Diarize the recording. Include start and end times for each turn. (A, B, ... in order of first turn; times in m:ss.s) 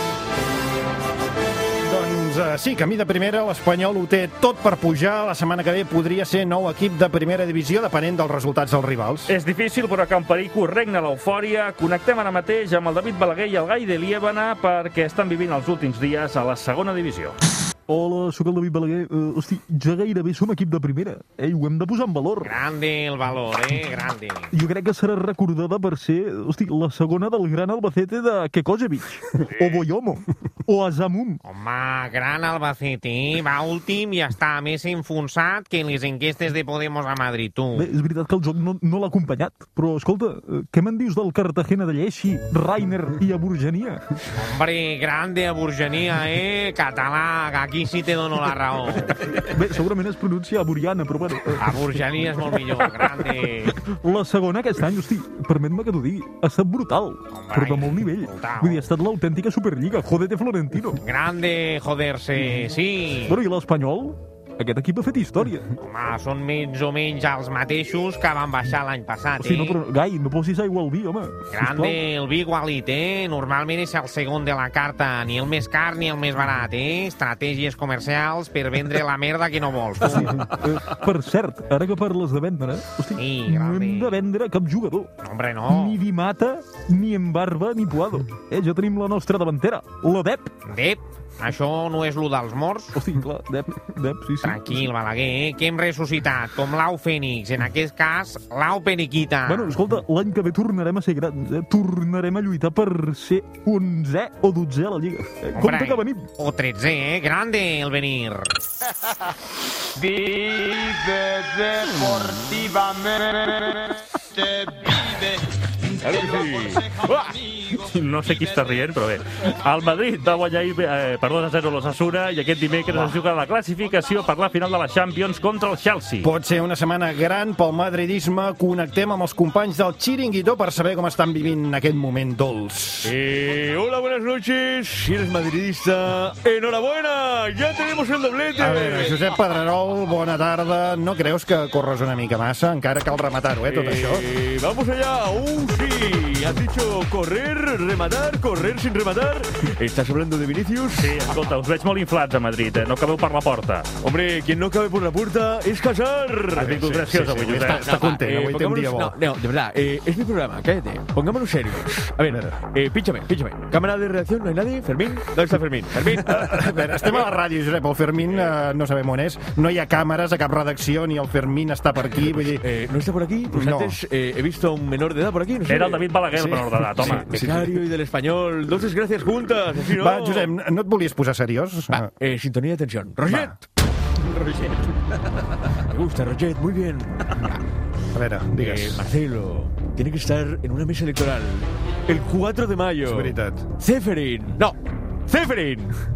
0:01.9-0:09.3 A
0:09.3-0:17.4 B
0:17.9-0:22.5 C
0:22.4-0:24.5 D
0:24.5-0:31.4 C
0:31.4-0:37.9 D
0:37.8-0:44.0 C
0:44.4-0:49.1 D
0:49.4-0:51.9 C
0:51.6-0:53.8 D
0:52.4-1:01.0 C
0:57.3-0:58.9 D
1:01.0-1:03.4 D
1:03.2-1:05.7 C
1:05.8-1:09.8 D
1:09.4-1:12.0 C
1:11.5-1:20.4 D
1:20.2-1:25.1 C
1:23.2-1:24.2 D
1:25.2-1:26.0 D
1:25.7-1:30.5 C
1:30.6-1:33.0 D
1:33.0-1:34.8 C
1:34.4-1:39.8 D
1:39.4-1:46.3 C
1:45.6-1:48.5 D
1:56.1-1:56.9 B
1:56.1-1:56.4 E
1:57.7-2:06.3 B
2:02.9-2:03.2 A
2:06.2-2:13.1 A
2:13.0-2:19.2 E
2:18.6-2:24.2 A
2:23.7-2:31.2 E
2:31.0-2:33.9 B
2:34.0-2:36.8 E
2:36.6-2:38.0 B
2:36.6-2:39.2 A
2:37.5-2:46.7 E
2:42.3-2:42.6 A
2:46.3-2:52.6 A
2:52.6-2:56.1 E
2:53.5-2:54.0 A
2:55.7-2:57.3 B
2:56.3-2:57.7 A
2:57.0-3:00.5 E
2:59.9-3:02.1 A
3:01.9-3:03.6 E
3:03.3-3:03.6 A
3:05.9-3:07.6 E
3:08.1-3:09.0 A
3:08.6-3:16.0 E
3:13.1-3:13.7 A